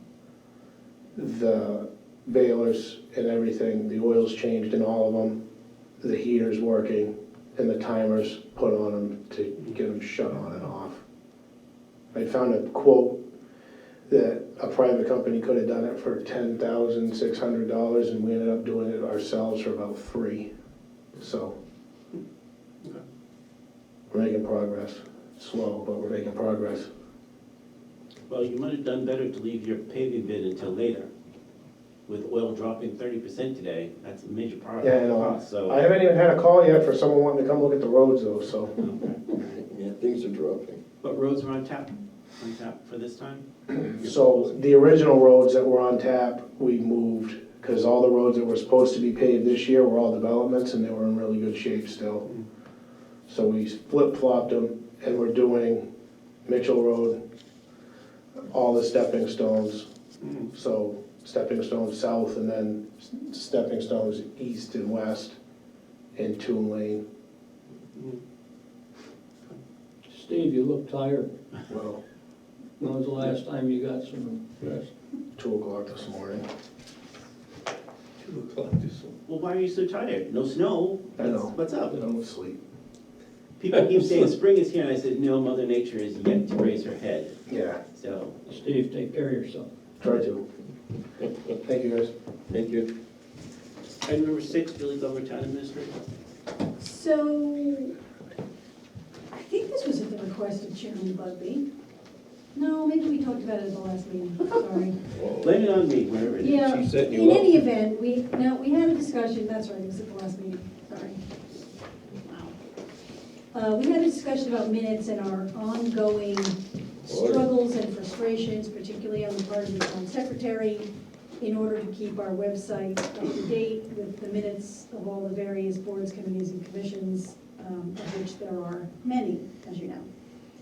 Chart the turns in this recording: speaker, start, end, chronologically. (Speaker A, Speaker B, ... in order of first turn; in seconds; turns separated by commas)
Speaker A: 1.1-5.4, Speaker A: 6.0-11.0, Speaker A: 12.1-13.2, Speaker A: 14.1-20.5, Speaker A: 21.2-21.6, Speaker A: 24.1-26.9, Speaker B: 28.3-31.1, Speaker B: 32.1-35.8, Speaker A: 34.8-38.8, Speaker B: 38.8-39.6, Speaker C: 39.6-40.8, Speaker B: 41.0-43.4, Speaker A: 43.7-52.3, Speaker A: 53.3-55.9, Speaker A: 56.5-57.2, Speaker A: 58.5-59.9, Speaker B: 60.2-60.5, Speaker A: 60.5-65.4, Speaker A: 66.2-67.0, Speaker B: 68.0-68.2, Speaker D: 70.1-71.3, Speaker A: 71.7-72.0, Speaker D: 72.8-74.9, Speaker A: 75.3-76.4, Speaker C: 78.2-79.1, Speaker B: 79.2-82.0, Speaker A: 81.2-82.6, Speaker B: 83.6-87.4, Speaker A: 87.5-87.8, Speaker B: 87.9-88.3, Speaker D: 88.5-89.7, Speaker A: 90.0-90.4, Speaker A: 91.6-92.1, Speaker C: 92.5-92.9, Speaker B: 94.0-96.0, Speaker E: 96.8-97.9, Speaker E: 99.3-101.6, Speaker E: 102.5-105.0, Speaker C: 105.1-105.6, Speaker B: 105.4-106.6, Speaker E: 106.4-111.2, Speaker C: 106.5-107.5, Speaker E: 112.2-112.5, Speaker E: 113.5-120.9, Speaker C: 117.0-117.5, Speaker E: 121.4-130.1